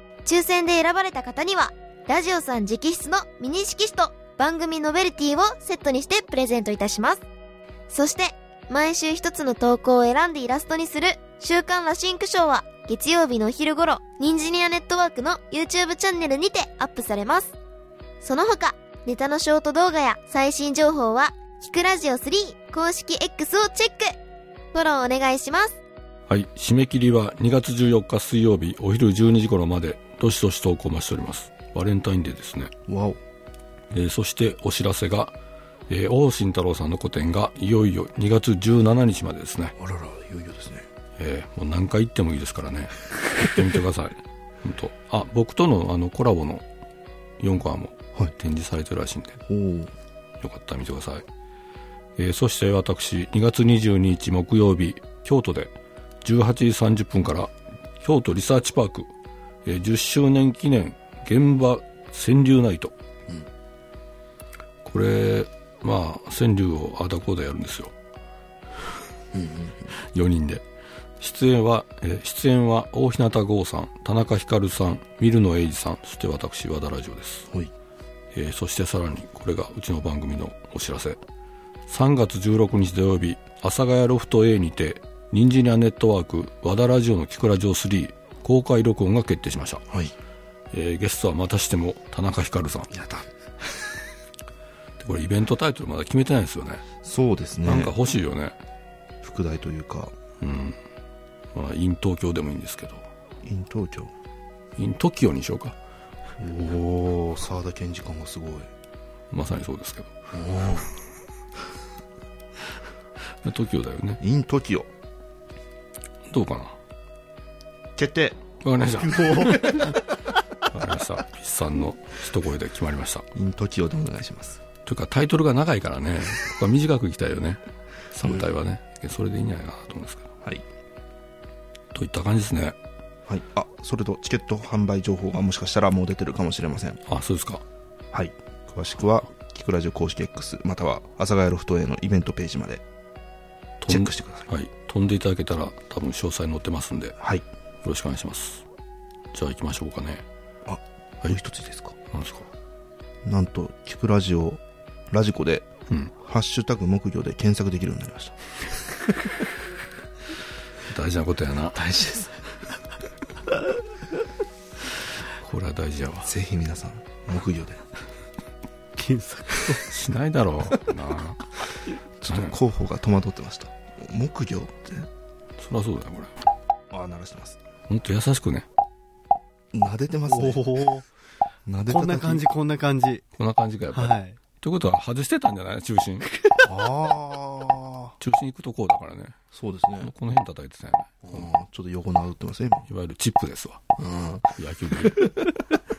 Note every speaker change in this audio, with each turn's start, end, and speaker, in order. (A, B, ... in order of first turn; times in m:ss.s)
0:00.2-0:07.2 A
0:07.9-0:17.5 A
0:18.2-0:24.2 A
0:24.7-0:25.8 A
0:26.3-0:32.7 B
0:32.9-0:33.2 C
0:33.9-0:35.3 B
0:35.9-0:39.8 B
0:39.8-0:40.8 C
0:41.2-0:46.6 B
0:47.4-0:49.4 B
0:49.4-0:49.9 C
0:50.4-0:51.2 B
0:52.2-0:59.1 B
0:59.6-1:02.9 B
1:04.8-1:07.9 B
1:09.3-1:09.9 C
1:10.1-1:10.6 B
1:11.2-1:17.5 B
1:18.3-1:21.2 B
1:21.9-1:29.8 B
1:30.7-1:32.9 B
1:32.9-1:33.3 C
1:35.0-1:36.8 B
1:37.0-1:37.9 C
1:37.6-1:38.6 B
1:39.2-1:40.1 C
1:40.4-1:40.8 B
1:41.5-1:43.0 B
1:43.4-1:44.1 C
1:44.8-1:45.8 B
1:46.4-1:48.7 C
1:49.3-1:50.1 B
1:50.3-1:50.9 C
1:53.4-1:54.2 B
1:54.2-1:54.9 C
1:56.3-1:56.8 B
1:58.0-1:58.4 C
1:58.6-2:00.1 B
1:59.1-2:00.0 C
2:00.6-2:03.2 B
2:03.3-2:04.6 C
2:04.8-2:07.6 B
2:08.1-2:10.3 B
2:11.9-2:12.8 B
2:13.3-2:17.0 C
2:17.1-2:17.6 B
2:18.1-2:22.8 C
2:23.8-2:27.2 B
2:23.9-2:24.5 C
2:27.2-2:27.4 C
2:27.8-2:28.6 B
2:29.3-2:30.2 B
2:30.6-2:31.9 C
2:32.1-2:32.5 B
2:33.2-2:38.4 C
2:40.9-2:41.8 B
2:41.7-2:42.3 C
2:45.4-2:46.3 B
2:46.2-2:47.8 C
2:49.0-2:49.8 D
2:49.8-2:51.5 B
2:52.2-2:55.1 C
2:52.3-2:52.6 B
2:55.6-2:56.3 B
2:56.9-2:57.6 C
2:57.9-2:58.7 B
2:59.7-3:00.8 C
3:00.3-3:01.0 D
3:01.7-3:02.5 C
3:01.9-3:03.2 D
3:03.4-3:06.3 B
3:03.9-3:04.4 D
3:06.6-3:08.1 C
3:08.2-3:09.4 B
3:09.5-3:10.1 C
3:10.0-3:11.5 B
3:11.2-3:12.9 C
3:12.9-3:13.8 B
3:14.0-3:15.5 C
3:14.6-3:15.5 B